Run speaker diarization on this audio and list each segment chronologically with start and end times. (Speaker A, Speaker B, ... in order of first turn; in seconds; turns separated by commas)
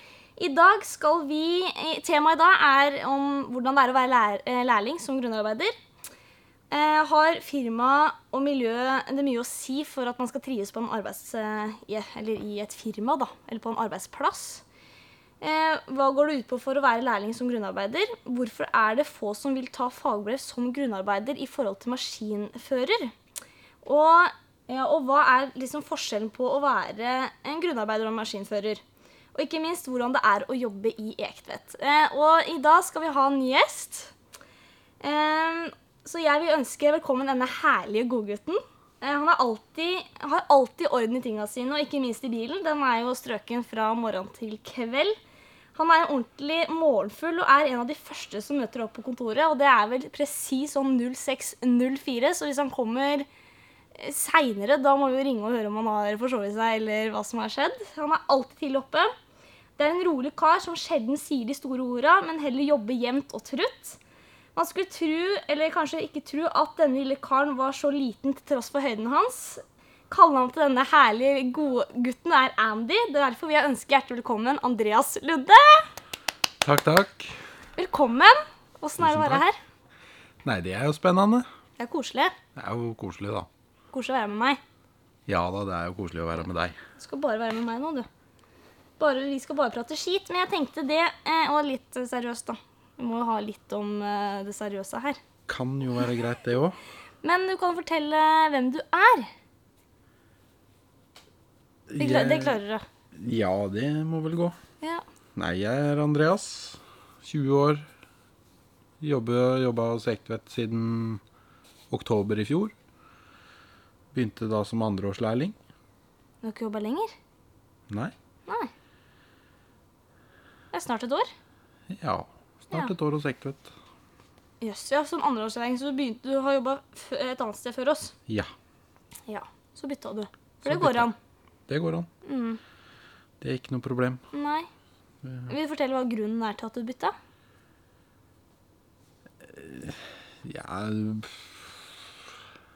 Speaker A: 0.4-5.7, Speaker A: 6.7-14.6, Speaker A: 15.4-23.1, Speaker A: 23.8-28.8, Speaker A: 29.3-34.1, Speaker A: 35.0-45.2, Speaker A: 45.7-53.2, Speaker A: 53.9-59.1, Speaker A: 59.8-64.0, Speaker A: 64.5-75.9, Speaker B: 76.6-77.4, Speaker A: 77.8-79.6, Speaker B: 79.0-79.4, Speaker B: 80.4-81.5, Speaker A: 81.8-82.3, Speaker B: 82.5-83.5, Speaker A: 83.9-84.6, Speaker B: 85.3-86.8, Speaker A: 87.0-88.1, Speaker A: 89.0-95.2, Speaker B: 95.5-96.8, Speaker A: 97.2-99.3, Speaker B: 101.9-102.6, Speaker A: 102.0-102.8, Speaker B: 103.1-104.6, Speaker B: 105.3-107.9, Speaker B: 109.0-111.2, Speaker B: 111.9-112.7, Speaker B: 114.1-115.5, Speaker A: 116.4-117.1, Speaker B: 117.9-118.1, Speaker A: 120.7-121.3, Speaker B: 121.9-123.7, Speaker A: 124.6-128.1, Speaker A: 129.3-131.1, Speaker B: 130.6-131.1, Speaker B: 131.7-132.1, Speaker A: 132.2-132.6, Speaker B: 133.4-134.2, Speaker A: 134.3-134.7, Speaker B: 135.2-135.5, Speaker A: 135.5-137.1, Speaker B: 139.4-142.3